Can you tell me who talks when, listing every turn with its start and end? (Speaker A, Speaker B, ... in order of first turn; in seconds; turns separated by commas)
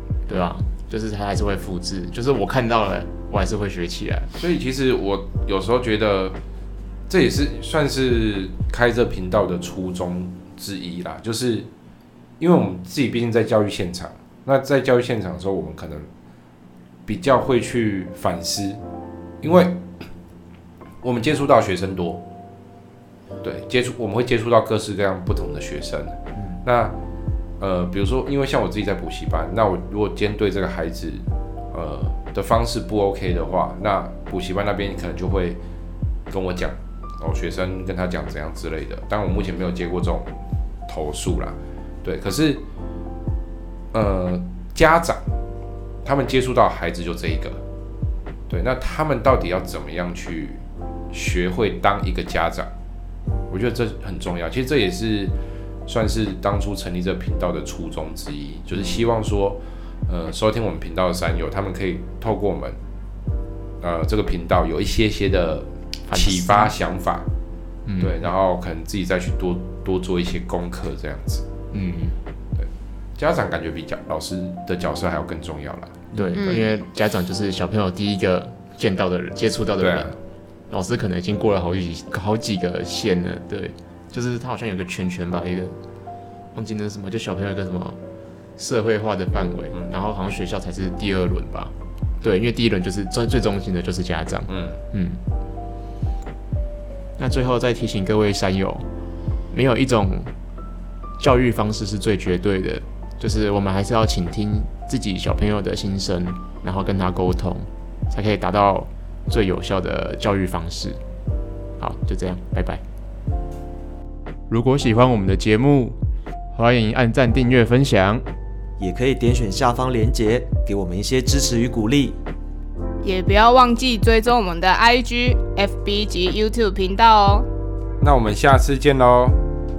Speaker A: 0.3-4.3, Speaker B: 4.3-6.4, Speaker B: 7.1-11.7, Speaker B: 12.4-16.1, Speaker B: 17.1-18.8, Speaker B: 19.4-19.8, Speaker B: 21.0-22.2, Speaker B: 23.4-27.0, Speaker B: 27.6-35.6, Speaker B: 36.3-40.3, Speaker B: 40.9-42.6, Speaker B: 43.9-45.2, Speaker B: 46.0-47.6, Speaker B: 48.5-52.7, Speaker B: 53.5-55.4, Speaker B: 55.9-62.8, Speaker B: 63.8-67.3, Speaker A: 66.1-66.7, Speaker A: 67.9-68.2, Speaker B: 68.0-71.5, Speaker A: 71.7-72.2, Speaker B: 72.6-76.0, Speaker C: 76.1-76.4, Speaker A: 76.1-80.2, Speaker D: 76.4-76.8, Speaker B: 79.8-80.2, Speaker A: 80.7-85.8, Speaker A: 86.5-88.0, Speaker A: 88.6-95.2, Speaker B: 94.5-94.8, Speaker A: 97.2-98.9, Speaker A: 99.5-100.3, Speaker A: 101.2-111.0, Speaker A: 111.8-112.8, Speaker A: 114.5-116.0, Speaker A: 116.5-118.2, Speaker C: 118.8-122.2, Speaker D: 123.0-127.5, Speaker B: 128.0-129.4